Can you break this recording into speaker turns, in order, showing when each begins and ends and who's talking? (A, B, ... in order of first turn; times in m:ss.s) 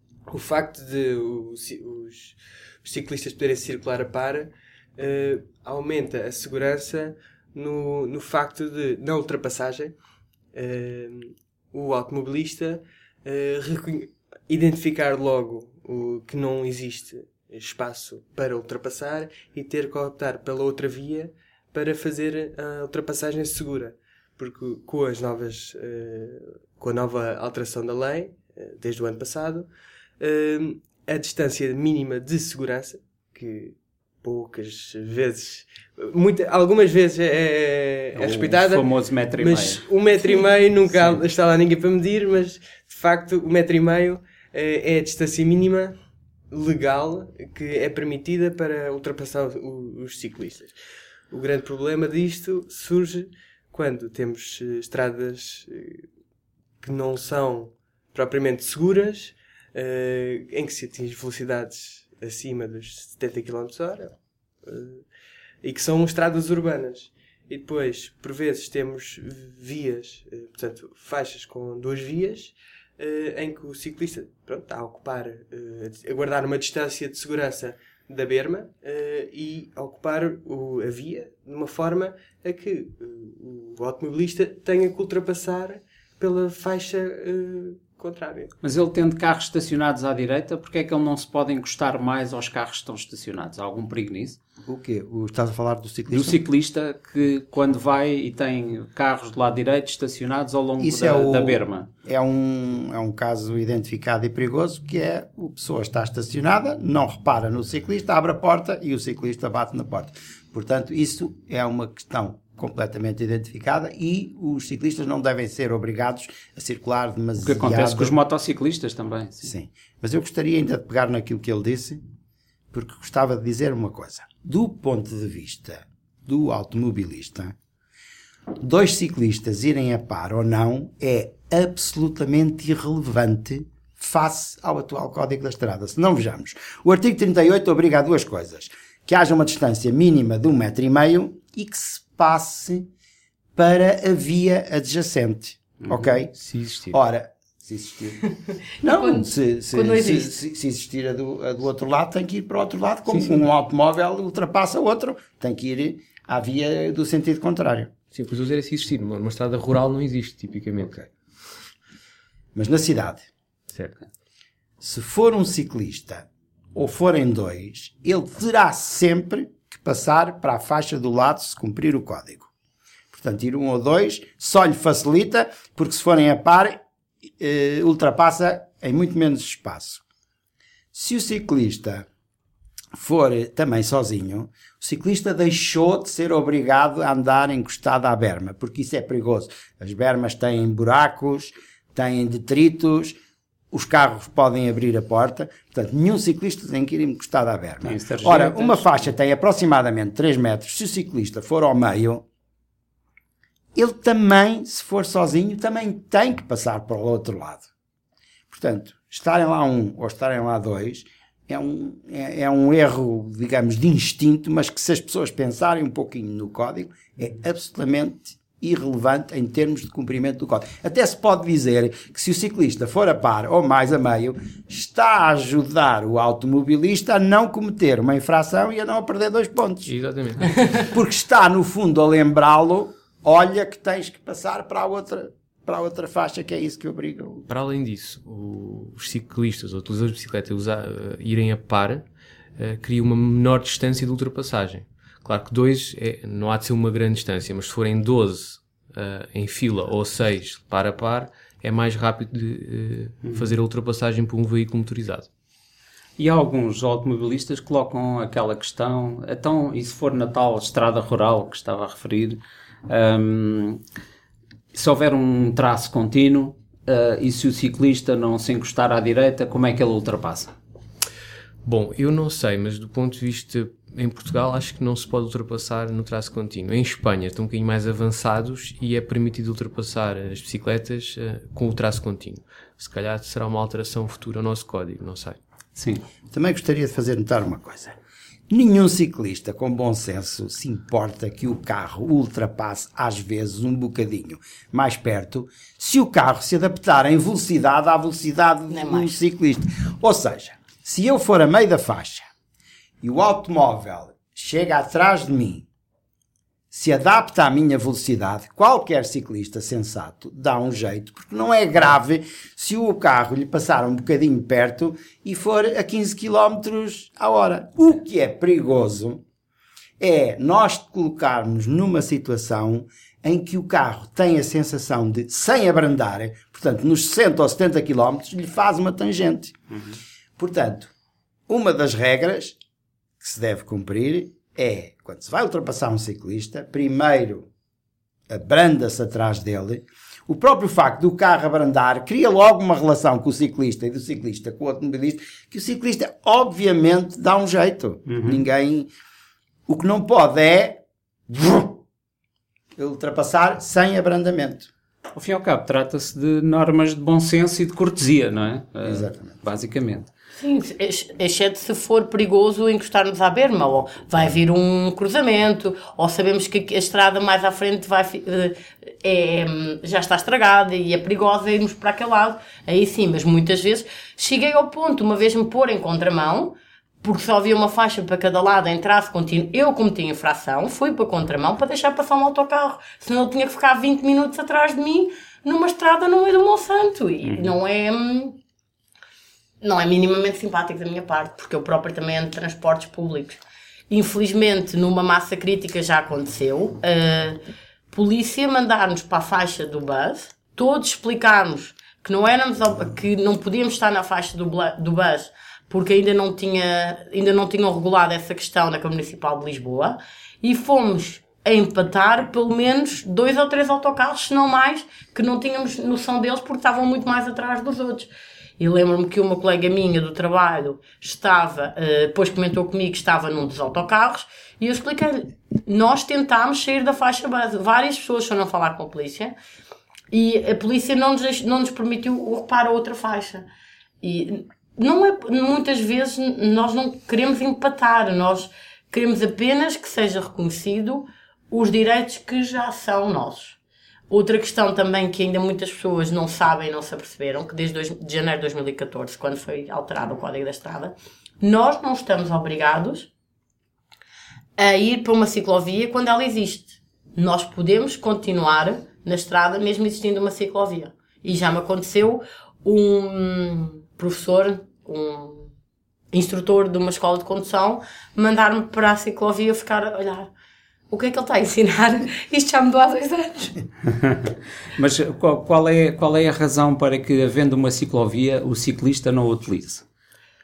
0:00.3-0:10.0 A
0:10.5-0:29.7 A
0:30.2-0:46.0 A
0:38.1-0:39.8 B
0:46.5-0:50.8 A
0:51.3-0:56.1 A
0:56.8-1:05.1 A
1:05.6-1:28.5 A
1:28.6-1:34.4 B
1:34.6-1:36.4 C
1:36.1-1:41.9 B
1:40.8-1:58.1 C
1:57.4-1:59.5 B
1:59.4-2:02.0 C
2:02.7-2:07.6 C
2:08.6-2:22.9 C
2:23.6-2:26.4 C
2:26.4-2:27.0 D
2:26.9-2:28.3 C
2:28.8-2:37.9 C
2:28.8-2:30.3 E
2:33.1-2:33.4 D
2:38.1-2:41.0 D
2:40.8-2:41.1 C
2:42.6-2:43.3 C
2:43.7-2:44.0 D
2:44.8-2:52.5 C
2:53.1-2:56.8 C
2:57.4-3:00.0 C
3:00.9-3:02.1 C
3:02.9-3:13.2 C
3:13.7-3:22.2 C
3:17.8-3:19.1 B
3:23.8-3:27.7 C
3:28.5-3:49.9 C
3:49.9-3:50.9 D
3:50.8-3:57.5 C
3:57.5-4:02.1 D
4:02.6-4:15.3 D
4:13.3-4:13.5 B
4:16.2-4:23.8 B
4:24.7-4:30.5 B
4:31.6-4:45.4 D
4:45.8-4:46.0 B
4:46.3-4:48.0 C
4:48.5-5:02.3 C
4:58.7-4:59.1 E
5:03.0-5:05.7 C
5:06.7-5:19.2 C
5:20.0-5:29.6 C
5:30.4-5:30.9 C
5:31.5-5:32.6 C
5:33.2-5:37.5 C
5:38.3-5:48.9 C
5:48.1-5:48.4 B
5:49.7-5:51.8 C
5:52.8-5:54.7 C
5:55.1-6:00.1 B
5:58.8-5:59.4 C
6:00.4-6:28.4 E
6:27.2-6:27.5 B
6:29.6-6:37.4 E
6:37.9-7:09.4 E
7:10.1-7:13.5 E
7:14.0-7:23.6 E
7:24.1-7:33.1 E
7:34.6-7:45.5 E
7:46.1-7:50.3 E
7:50.9-7:53.6 E
7:53.9-7:59.8 B